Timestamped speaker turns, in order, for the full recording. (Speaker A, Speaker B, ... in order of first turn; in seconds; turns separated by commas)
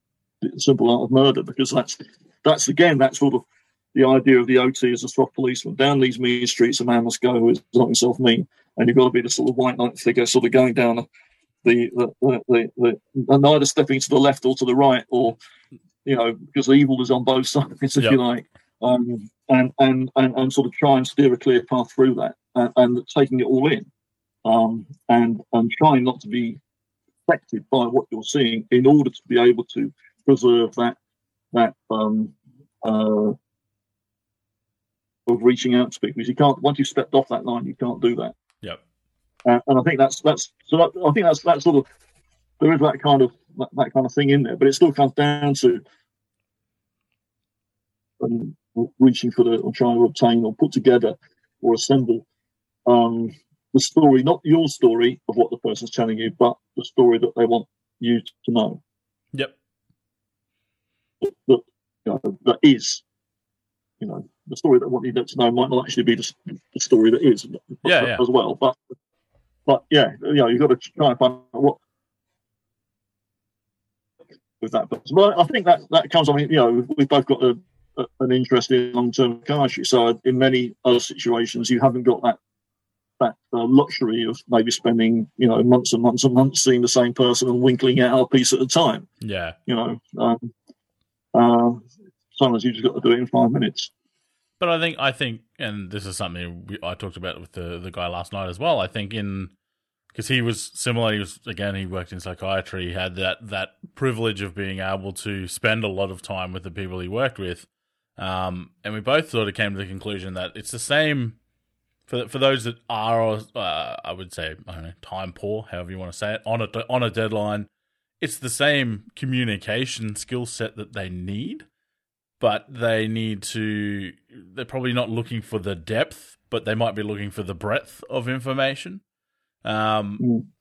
Speaker A: 0.4-11.1, Speaker A: 11.6-15.4, Speaker A: 16.0-23.9, Speaker A: 24.4-26.6, Speaker A: 27.3-31.0, Speaker A: 31.5-33.3, Speaker A: 35.2-38.3, Speaker A: 39.4-41.8, Speaker A: 42.6-45.8, Speaker A: 48.2-52.2, Speaker A: 52.9-58.8, Speaker A: 61.2-63.0, Speaker A: 64.0-68.8, Speaker B: 67.8-68.2, Speaker A: 69.7-71.8, Speaker A: 74.6-82.4, Speaker A: 83.2-89.1, Speaker B: 89.2-89.5, Speaker A: 89.7-90.5, Speaker A: 91.3-93.9, Speaker B: 94.6-99.5, Speaker B: 100.1-111.4, Speaker B: 112.1-117.7, Speaker B: 118.2-121.7, Speaker B: 122.4-129.0, Speaker B: 129.6-130.2